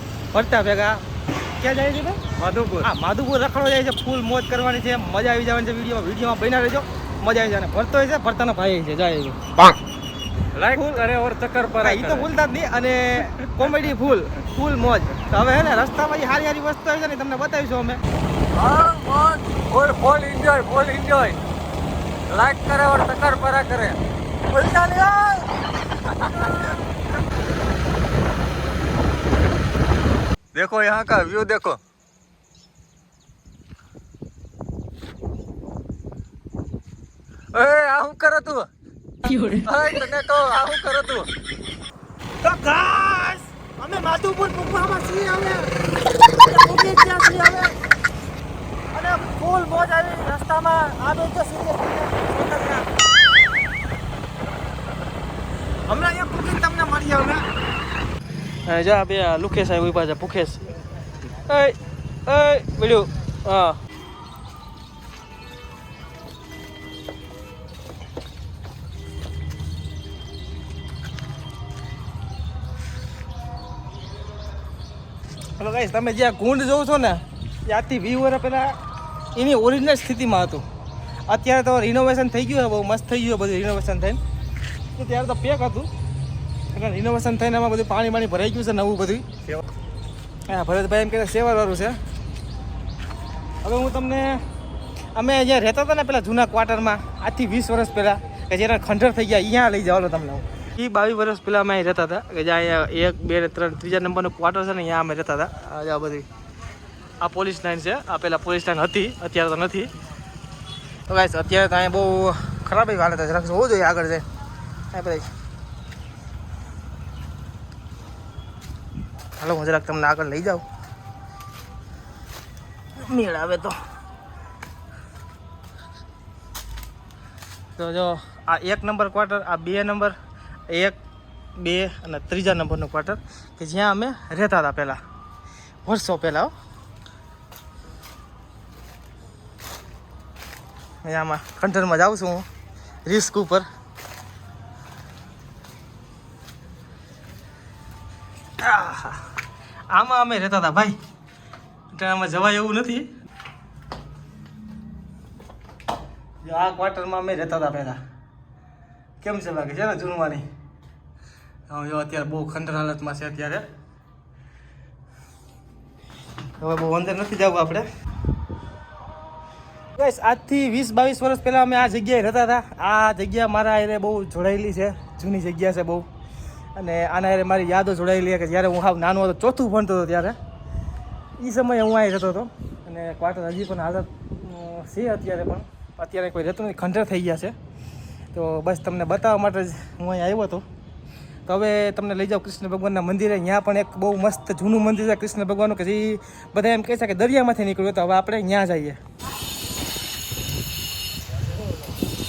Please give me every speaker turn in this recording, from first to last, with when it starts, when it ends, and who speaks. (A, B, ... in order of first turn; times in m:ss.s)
0:00.3-0:01.0 A
0:01.6-0:02.2 A
0:02.4-0:02.9 B
0:02.8-0:09.4 A
0:10.5-0:12.3 B
0:11.8-0:18.0 A
0:18.5-0:21.4 B
0:22.3-0:24.0 B
0:24.6-0:24.9 A
0:24.6-0:25.4 B
0:26.1-0:26.7 B
0:30.5-0:31.8 B
0:37.5-0:38.7 B
0:39.6-0:41.3 B
0:42.4-0:45.7 A
0:46.2-0:47.8 A
0:48.9-0:52.9 A
0:55.9-0:57.5 A
0:58.7-1:00.7 A
1:01.4-1:01.8 A
1:02.3-1:03.8 A
1:15.6-1:18.8 A
1:19.3-1:20.6 A
1:21.3-1:24.2 A
1:25.0-1:25.9 A
1:26.7-1:29.3 A
1:30.5-1:32.0 A
1:33.6-1:34.4 A
1:35.1-1:46.3 A
1:47.2-1:49.9 A
1:51.1-1:54.2 A
1:54.9-1:55.3 A
1:59.4-2:00.6 A
2:03.0-2:03.8 A
2:07.8-2:10.2 A
2:10.7-2:11.0 A
2:11.6-2:15.0 A
2:15.8-2:16.5 A
2:21.0-2:22.5 A
2:23.0-2:23.6 A
2:28.6-2:29.2 A
2:29.9-2:31.0 A
2:31.9-2:33.1 A
2:36.4-2:38.0 A
2:39.2-2:40.4 A
2:41.7-2:43.6 A
2:46.6-2:47.8 A
2:50.0-2:56.0 A
2:56.8-3:00.4 A
3:01.4-3:07.5 A
3:08.3-3:10.6 A
3:11.5-3:19.0 A